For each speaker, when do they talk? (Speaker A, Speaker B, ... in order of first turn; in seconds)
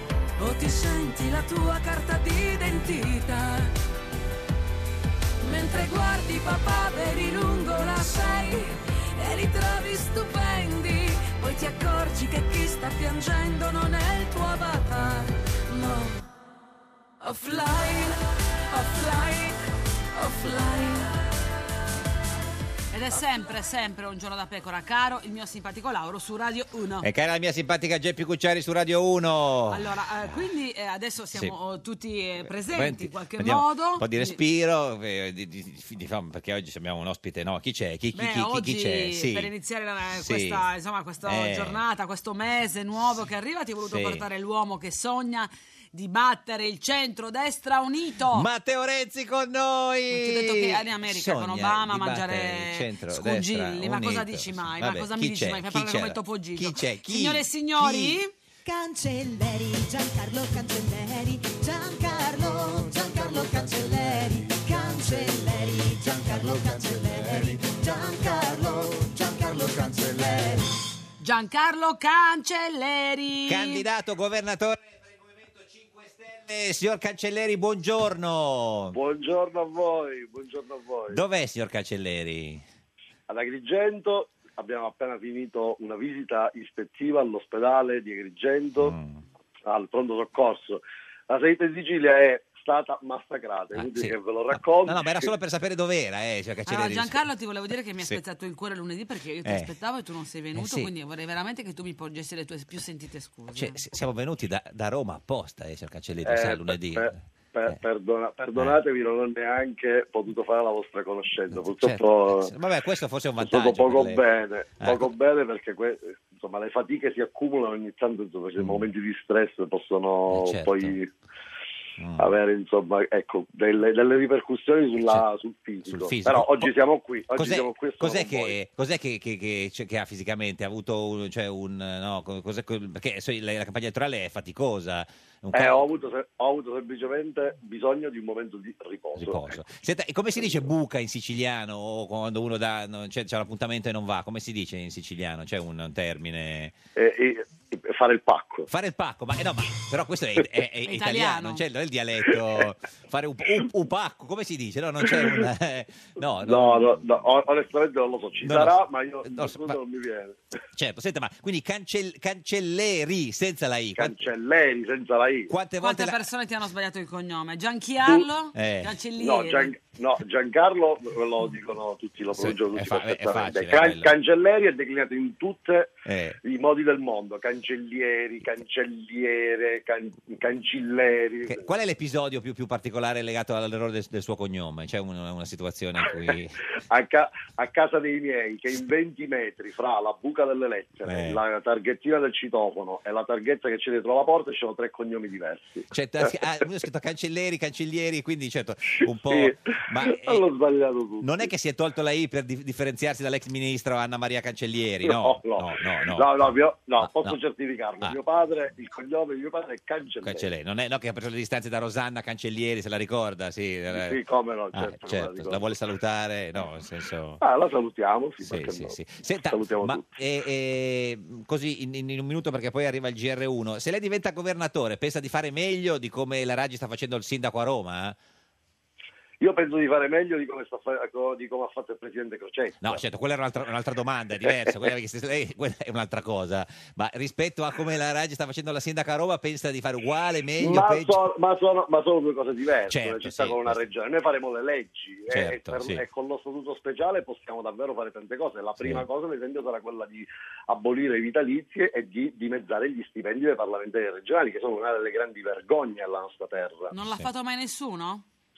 Speaker A: 0.4-3.8, 5.4-16.3, 17.2-21.2
Speaker B: 22.9-27.1, 29.7-34.4, 38.1-48.5, 50.1-58.3, 71.2-73.8, 96.7-103.8, 150.9-151.6, 165.8-169.7, 256.9-258.2
Speaker C: 27.0-30.3, 32.5-39.5, 40.2-40.6, 41.2-41.8, 43.9-44.3, 48.3-58.2, 73.5-79.0, 81.1-82.6, 88.8-89.2, 93.8-97.2, 99.4-99.7, 100.5-100.9, 103.5-107.1, 111.5-114.2, 114.8-115.1, 118.6-118.8, 120.3-121.0, 122.0-122.3, 125.9-126.7, 127.3-135.9, 139.2-146.8, 148.7-157.2, 158.4-159.8, 160.8-164.3, 165.5-166.2, 168.6-168.9, 172.3-174.1, 176.1-176.4, 181.5-186.6, 191.1-191.4, 195.9-200.4, 201.2-207.4, 210.2-214.2, 214.8-217.4, 218.4-228.2, 232.8-241.2, 242.9-243.8, 245.3-246.0, 248.8-249.1
Speaker D: 58.6-70.7
Speaker E: 78.9-81.2, 83.3-89.0, 89.7-95.3, 106.2-112.5, 113.4-121.1, 122.2-128.6, 135.5-139.5, 146.9-148.7, 155.1-155.4, 156.4-160.4, 164.0-165.5, 169.2-181.6, 186.9-195.9, 199.3-201.5, 205.0-210.5, 213.9-215.7, 217.4-220.1, 229.4-233.0, 240.6-256.9